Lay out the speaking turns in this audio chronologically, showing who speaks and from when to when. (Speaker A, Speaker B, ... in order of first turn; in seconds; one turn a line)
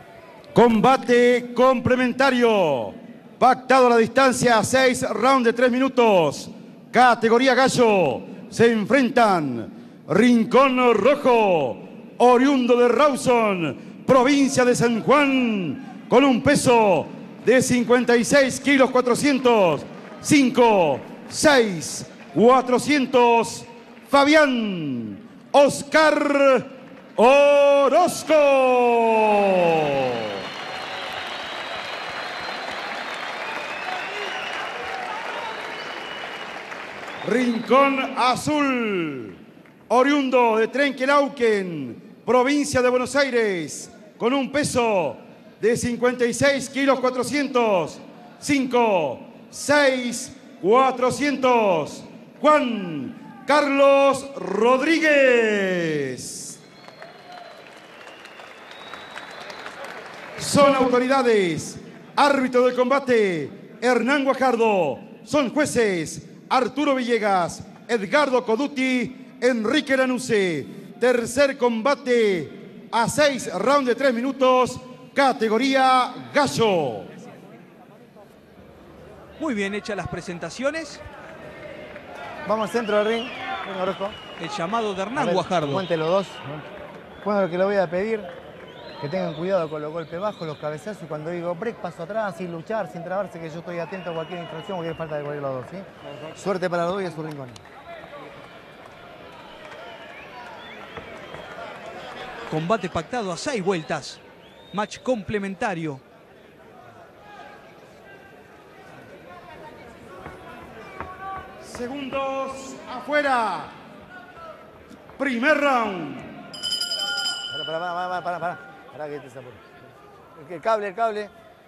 Speaker A: 0.5-30.3
Speaker A: 37.2-39.4
Speaker A: 39.9-56.6
Speaker A: 60.4-77.1
Speaker B: 79.4-81.0
Speaker C: 82.5-84.2
Speaker B: 84.4-85.8
Speaker C: 85.1-86.6
Speaker C: 87.2-88.3
Speaker C: 89.0-97.6
Speaker B: 102.5-104.2
Speaker B: 104.7-106.0
Speaker A: 111.6-113.7
Speaker A: 115.2-116.3
Speaker C: 117.5-119.6
Speaker C: 120.4-121.3